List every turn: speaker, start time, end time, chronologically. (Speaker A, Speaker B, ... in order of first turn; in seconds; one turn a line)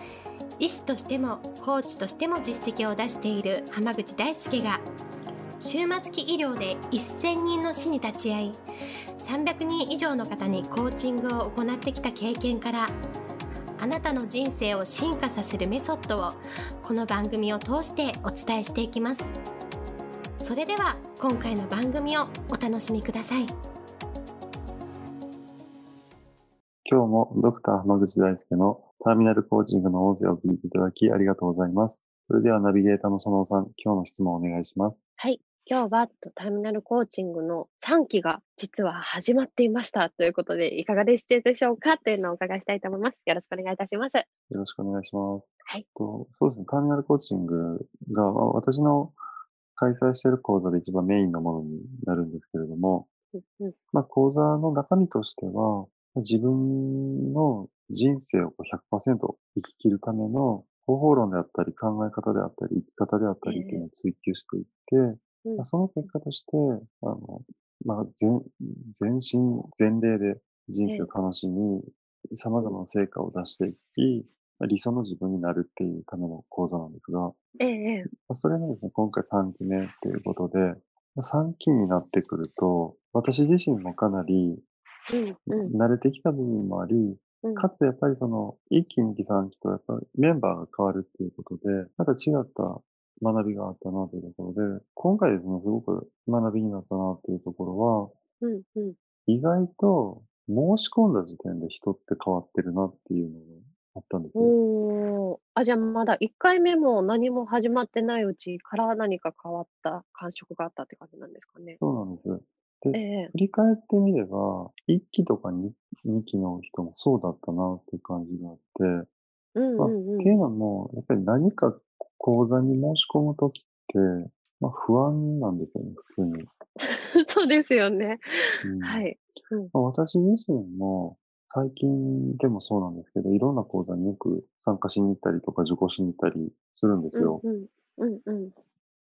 Speaker A: 0.6-4.8
Speaker A: 5.6-8.6
Speaker A: 9.2-12.9
Speaker A: 13.8-19.4
Speaker A: 20.4-23.5
Speaker B: 26.9-35.0
Speaker C: 35.5-44.3
Speaker B: 44.5-49.2
Speaker B: 49.8-53.1
Speaker C: 53.4-53.8
Speaker B: 53.9-77.4
Speaker C: 63.5-63.9
Speaker C: 77.6-78.1
Speaker B: 78.1-84.6
Speaker C: 85.1-85.7
Speaker B: 85.5-98.2
Speaker C: 87.4-87.7
Speaker C: 98.4-99.0
Speaker B: 99.3-104.5
Speaker C: 104.4-111.8
Speaker B: 111.8-119.1
Speaker C: 112.9-113.3
Speaker C: 119.6-120.4
Speaker B: 119.8-126.5
Speaker C: 126.8-128.2
Speaker B: 128.6-129.1
Speaker C: 128.8-129.7
Speaker B: 129.7-137.4
Speaker C: 137.2-138.5